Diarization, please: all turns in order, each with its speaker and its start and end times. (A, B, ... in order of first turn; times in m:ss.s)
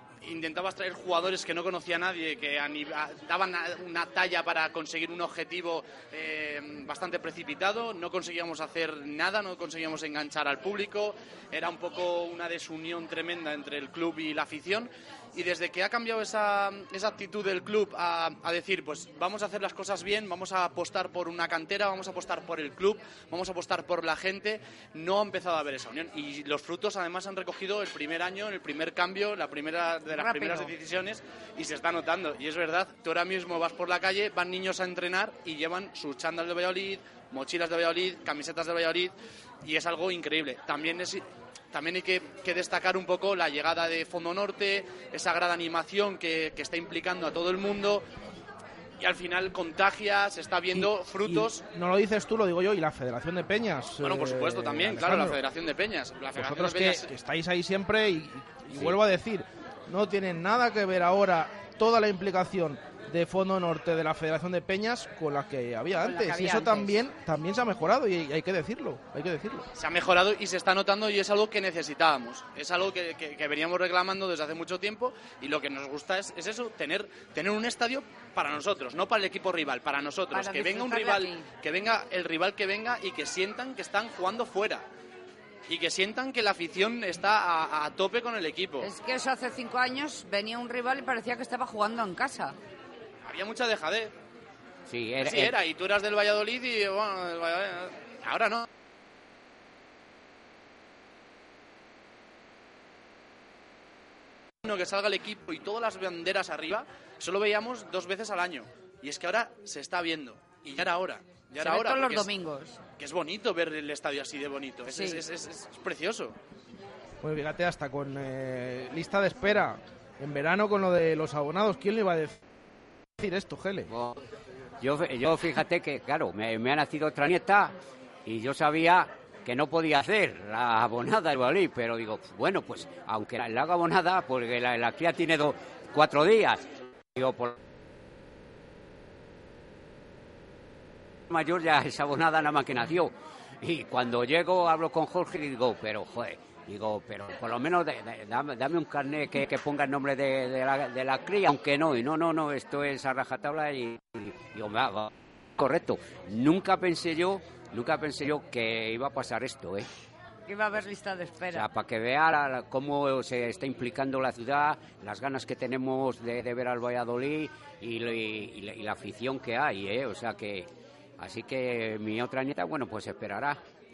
0:00.2-0:39.1 A
0:30.1-0:30.7 B
0:39.6-0:48.0 A
0:49.0-0:51.6 A
0:50.7-0:55.4 C
0:54.0-0:57.1 A
0:56.4-1:09.7 C
1:06.0-1:07.0 B
1:09.8-1:24.8 A
1:20.3-1:21.4 B
1:25.7-1:28.9 A
1:28.8-1:32.6 B
1:33.2-1:34.1 A
1:34.9-1:35.6 D
1:35.2-1:38.6 A
1:44.6-1:52.3 A
1:51.6-1:52.8 B
1:53.0-1:56.4 A
1:54.9-1:55.2 B
1:57.2-2:02.4 C
2:03.2-2:03.9 C
2:03.9-2:04.2 D
2:04.8-2:07.7 D
2:08.3-2:17.6 D
2:21.3-2:39.9 D
2:40.5-2:41.7 B
2:41.5-2:53.6 D